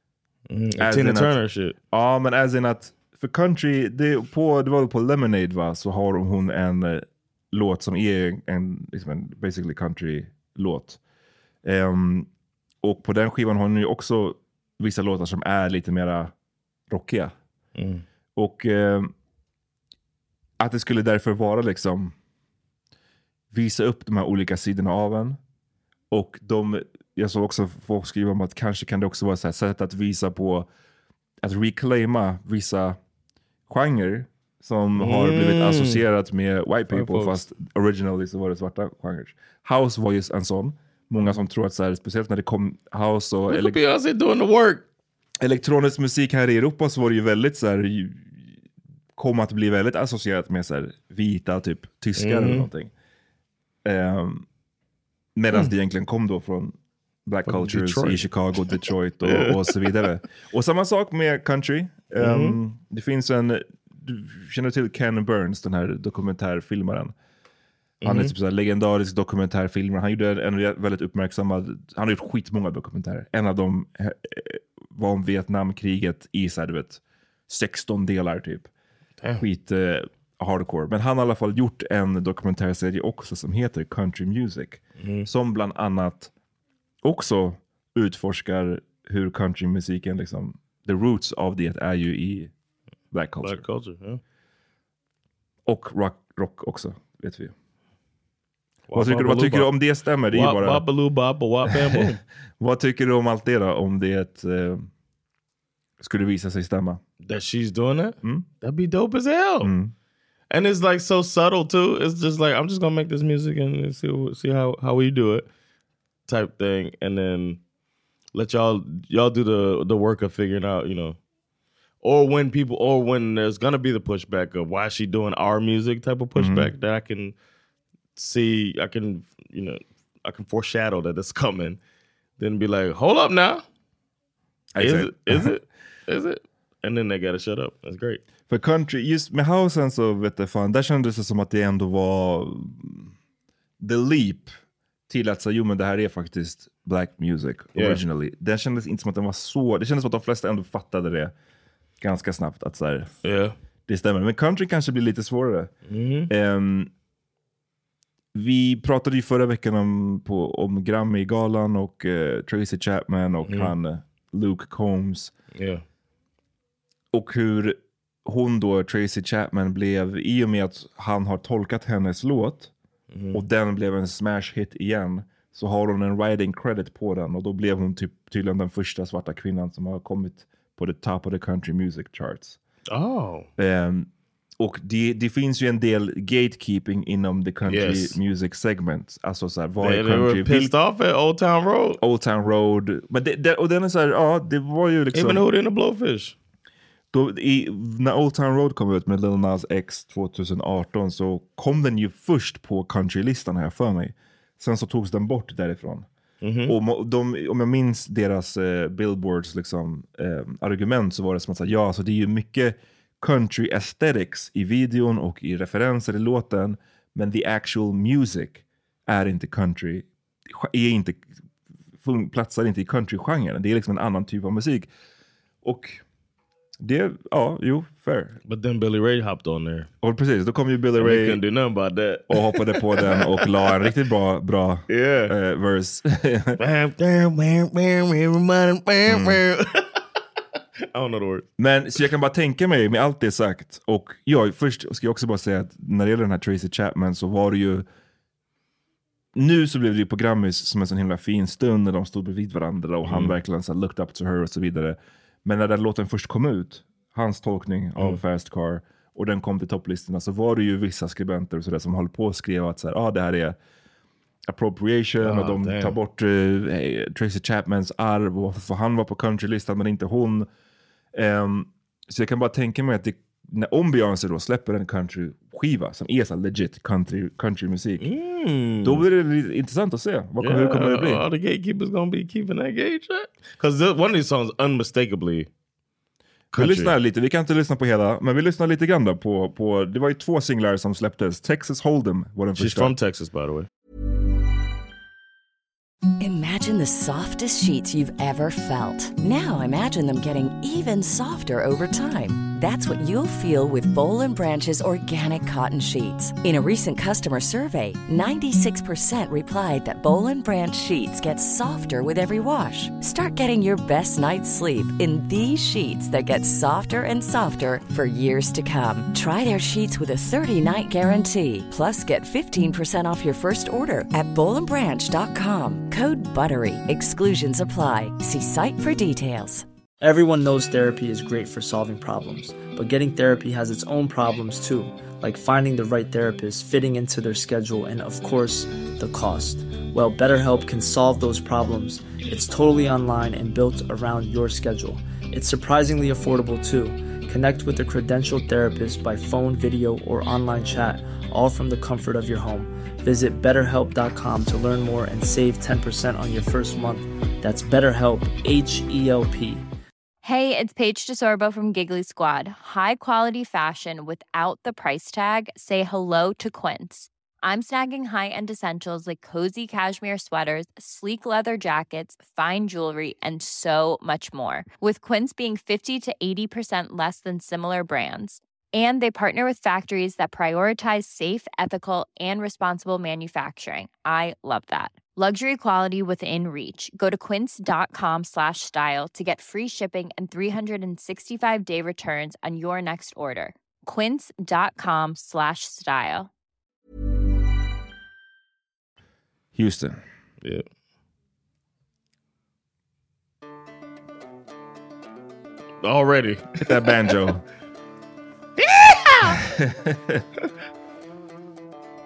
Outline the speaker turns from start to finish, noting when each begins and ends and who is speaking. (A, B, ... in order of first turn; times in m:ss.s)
0:00.5-0:01.8 A
0:00.8-0:01.4 B
0:01.9-0:11.0 B
0:11.6-0:12.3 B
0:12.8-0:16.3 B
0:16.9-0:17.4 B
0:17.8-0:18.0 A
0:18.4-0:19.1 B
0:20.6-0:22.2 B
0:23.5-0:25.4 B
0:26.1-0:30.7 B
0:31.4-0:33.0 B
0:33.7-0:43.8 B
0:35.0-0:36.1 A
0:36.9-0:37.4 A
0:43.5-0:44.8 A
0:45.4-0:48.5 B
0:49.2-0:52.9 B
0:52.2-0:52.7 A
0:53.8-0:54.5 B
0:55.4-1:07.1 B
0:57.5-0:59.8 A
1:02.2-1:02.6 A
1:08.0-1:08.3 A
1:08.0-1:18.7 B
1:19.4-1:26.3 B
1:25.0-1:25.3 A
1:27.0-1:32.5 B
1:33.1-1:33.6 B
1:33.4-1:34.2 A
1:35.7-1:37.5 B
1:38.9-1:39.7 A
1:38.9-1:40.8 B
1:40.3-1:42.2 A
1:41.7-1:42.0 B
1:42.6-1:44.9 B
1:46.0-1:47.0 B
1:47.2-1:49.7 A
1:48.2-1:48.5 B
1:49.6-1:49.9 B
1:50.5-1:55.5 A
1:56.3-1:57.6 A
1:58.3-2:01.2 A
2:02.0-2:07.4 A
2:06.4-2:06.7 B
2:08.2-2:11.8 A
2:12.4-2:13.6 A
2:14.8-2:15.5 B
2:14.8-2:18.2 A
2:18.5-2:23.1 B
2:23.8-2:24.5 B
2:25.1-2:31.3 B
2:27.8-2:28.0 A
2:32.0-2:33.1 B
2:33.2-2:33.6 A
2:33.9-2:35.7 B
2:35.9-2:36.3 A
2:36.3-2:36.9 B
2:38.3-2:45.3 B
2:43.4-2:43.7 A
2:45.5-2:45.8 A
2:47.1-2:52.7 B
2:53.1-2:53.4 A
2:53.3-3:02.6 B
3:02.9-3:03.5 A
3:03.6-3:10.7 B
3:07.6-3:08.2 A
3:09.8-3:12.0 A
3:12.0-3:15.4 B
3:15.1-3:16.4 A
3:17.1-3:26.1 B
3:26.4-3:26.8 A
3:26.6-3:41.3 B
3:42.0-3:44.9 B
3:45.6-3:46.0 B
3:46.8-3:48.4 B
3:48.4-3:49.9 A
3:50.0-3:51.4 B
3:51.0-3:53.7 A
3:52.3-3:56.6 B
3:54.9-3:55.3 A
3:56.6-4:00.0 A
3:59.1-3:59.4 B
4:00.9-4:01.5 A
4:01.6-4:07.8 B
4:09.4-4:23.6 B
4:13.0-4:13.4 A
4:24.5-4:30.5 B
4:25.2-4:26.0 A
4:31.1-4:38.1 B
4:38.0-4:39.1 A
4:38.8-4:41.2 B
4:40.4-4:45.5 A
4:46.5-4:46.9 A
4:46.5-4:53.0 B
4:52.6-4:53.7 A
4:56.2-5:29.6 C
5:30.0-5:59.7 D
6:00.2-6:36.3 E
6:39.5-6:40.0 B
6:45.8-6:47.1 A
6:46.6-6:47.4 B
6:48.6-6:49.4 A
6:49.4-6:50.2 B